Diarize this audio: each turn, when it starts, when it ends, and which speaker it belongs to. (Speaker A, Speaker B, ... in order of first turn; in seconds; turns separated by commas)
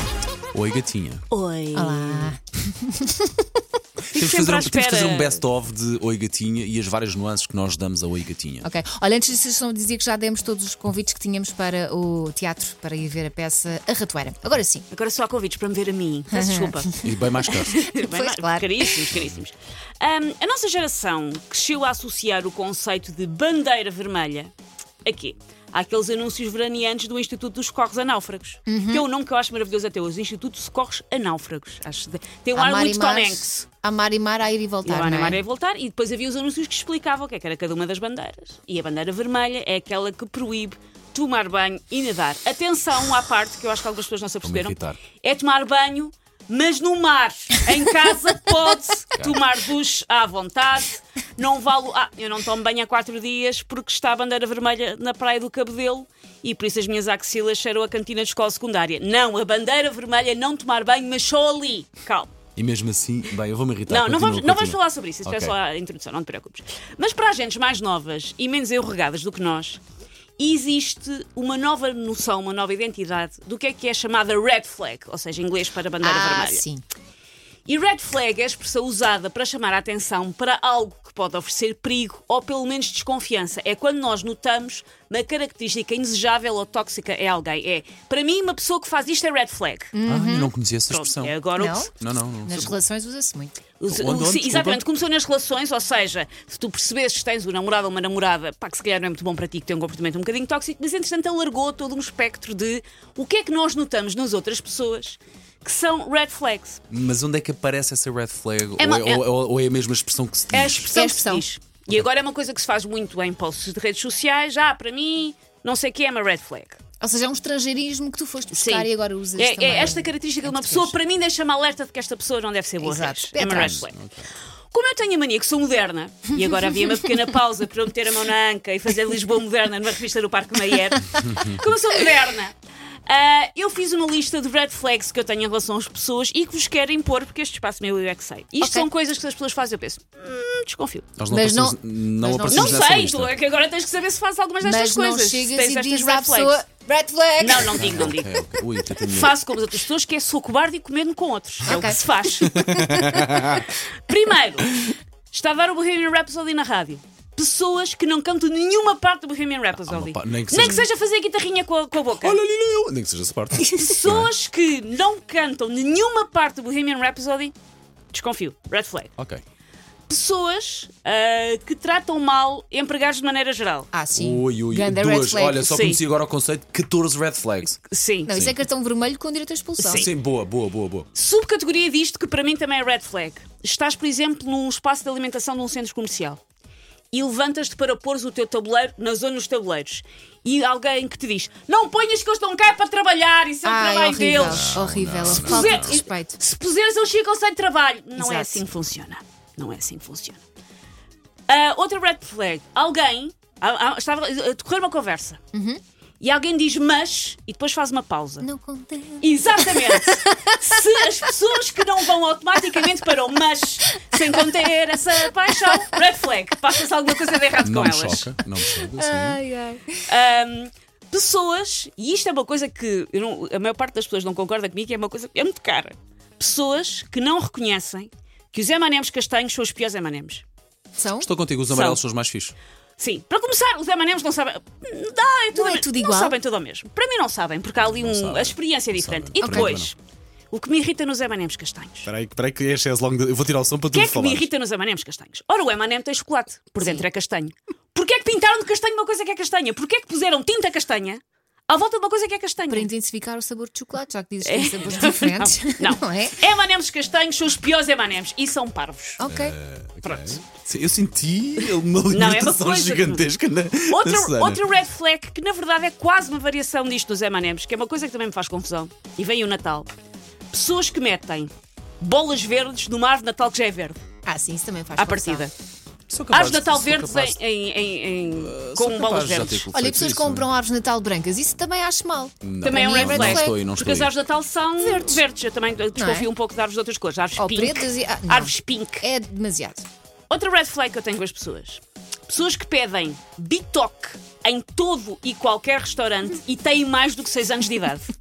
Speaker A: 0.5-1.2, Speaker B: 1.3-2.4, Speaker C: 1.7-3.6, Speaker B: 4.1-5.4, Speaker A: 4.2-8.7, Speaker C: 8.6-14.8, Speaker B: 14.9-24.5, Speaker C: 16.3-17.3, Speaker A: 17.0-17.8, Speaker C: 17.8-19.1, Speaker B: 25.0-33.7, Speaker C: 28.7-29.1, Speaker C: 32.5-35.4, Speaker B: 34.8-62.3, Speaker A: 44.4-45.0, Speaker A: 62.5-65.6, Speaker B: 63.9-69.8, Speaker B: 70.4-76.6, Speaker C: 76.0-76.8, Speaker B: 77.7-90.0, Speaker C: 89.9-90.5, Speaker A: 90.1-92.8, Speaker B: 90.9-91.9, Speaker C: 91.6-93.6, Speaker B: 93.8-106.8, Speaker A: 93.9-94.8, Speaker A: 106.9-111.0, Speaker B: 108.8-109.2, Speaker B: 110.5-116.8, Speaker C: 110.9-111.5, Speaker C: 117.0-121.0, Speaker B: 118.5-124.0, Speaker C: 122.8-123.8, Speaker A: 123.4-124.3, Speaker B: 124.7-132.6, Speaker A: 131.2-131.7, Speaker B: 133.1-141.1, Speaker C: 138.6-138.9, Speaker A: 141.2-143.4, Speaker C: 141.3-142.9, Speaker B: 142.5-146.6, Speaker C: 144.6-148.1, Speaker B: 147.4-148.4, Speaker A: 147.8-149.4, Speaker B: 149.0-152.9, Speaker C: 151.7-152.0, Speaker A: 152.3-153.7, Speaker C: 152.8-153.3, Speaker B: 153.5-154.8, Speaker B: 155.3-162.4, Speaker A: 159.7-160.9, Speaker A: 162.2-164.3, Speaker B: 163.8-167.5, Speaker B: 168.1-169.1, Speaker A: 169.2-169.4, Speaker B: 170.1-173.9, Speaker C: 173.9-175.8, Speaker A: 174.1-178.6, Speaker B: 175.5-176.0, Speaker B: 177.8-178.3, Speaker C: 178.3-180.1, Speaker B: 179.8-180.1, Speaker A: 179.9-181.1, Speaker B: 181.1-186.4, Speaker B: 187.1-200.4, Speaker C: 193.6-196.4, Speaker A: 194.4-196.0, Speaker C: 198.2-198.6, Speaker B: 201.5-205.4, Speaker C: 205.5-205.8, Speaker B: 206.2-208.5, Speaker C: 208.4-210.5, Speaker B: 209.2-218.3, Speaker A: 217.6-219.4, Speaker C: 218.7-220.0, Speaker B: 220.1-230.4, Speaker C: 231.0-231.3, Speaker A: 231.2-232.6, Speaker B: 231.7-232.0, Speaker B: 233.0-239.9, Speaker C: 235.5-236.4, Speaker A: 237.8-239.9, Speaker C: 239.4-239.8, Speaker B: 240.5-242.1, Speaker A: 242.1-244.5, Speaker B: 243.9-252.9, Speaker C: 246.8-247.1, Speaker C: 252.7-256.4, Speaker B: 254.4-259.2, Speaker C: 259.2-259.6, Speaker A: 259.3-264.6, Speaker B: 260.0-260.4, Speaker B: 261.6-263.3, Speaker B: 263.9-269.9, Speaker B: 270.5-274.0, Speaker C: 274.3-275.5, Speaker B: 275.0-275.5, Speaker A: 276.1-277.4, Speaker B: 276.3-279.7, Speaker A: 278.3-280.5, Speaker C: 279.7-283.6, Speaker A: 282.4-284.1, Speaker B: 282.6-289.1, Speaker C: 284.9-285.1, Speaker C: 286.0-286.3, Speaker C: 287.4-289.9, Speaker B: 290.3-298.1